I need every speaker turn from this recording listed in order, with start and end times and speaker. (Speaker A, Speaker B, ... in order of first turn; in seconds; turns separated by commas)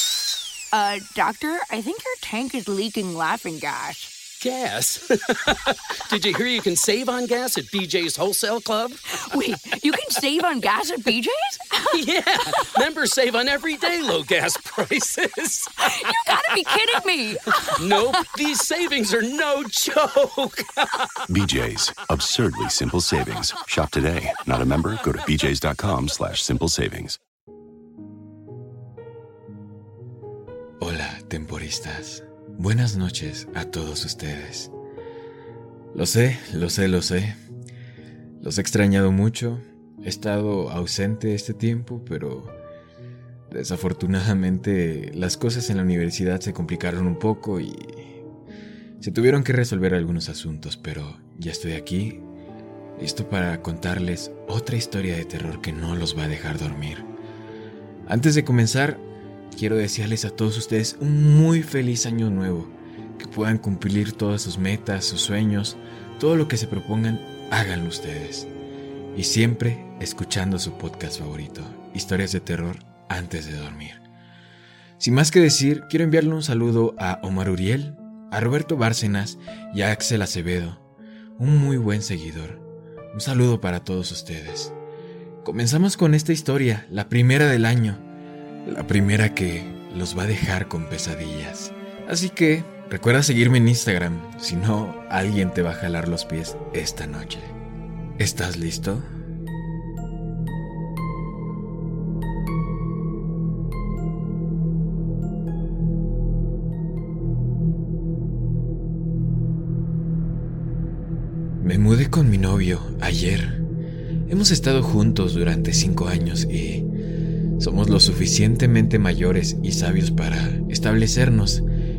Speaker A: 0.7-4.1, Speaker B: 4.4-10.2, Speaker A: 9.2-12.0, Speaker B: 11.8-17.0, Speaker A: 15.8-18.2, Speaker B: 17.6-21.2, Speaker C: 21.3-27.2, Speaker D: 30.8-34.7, Speaker D: 35.9-37.4, Speaker D: 38.4-42.5, Speaker D: 43.5-48.1, Speaker D: 49.0-52.2, Speaker D: 53.0-57.1, Speaker D: 58.1-59.0, Speaker D: 59.5-68.5, Speaker D: 69.1-74.0, Speaker D: 75.0-80.8, Speaker D: 81.4-84.7, Speaker D: 85.4-88.0, Speaker D: 88.6-97.5, Speaker D: 98.2-99.1, Speaker D: 111.6-113.6, Speaker D: 114.3-116.9, Speaker D: 117.6-121.6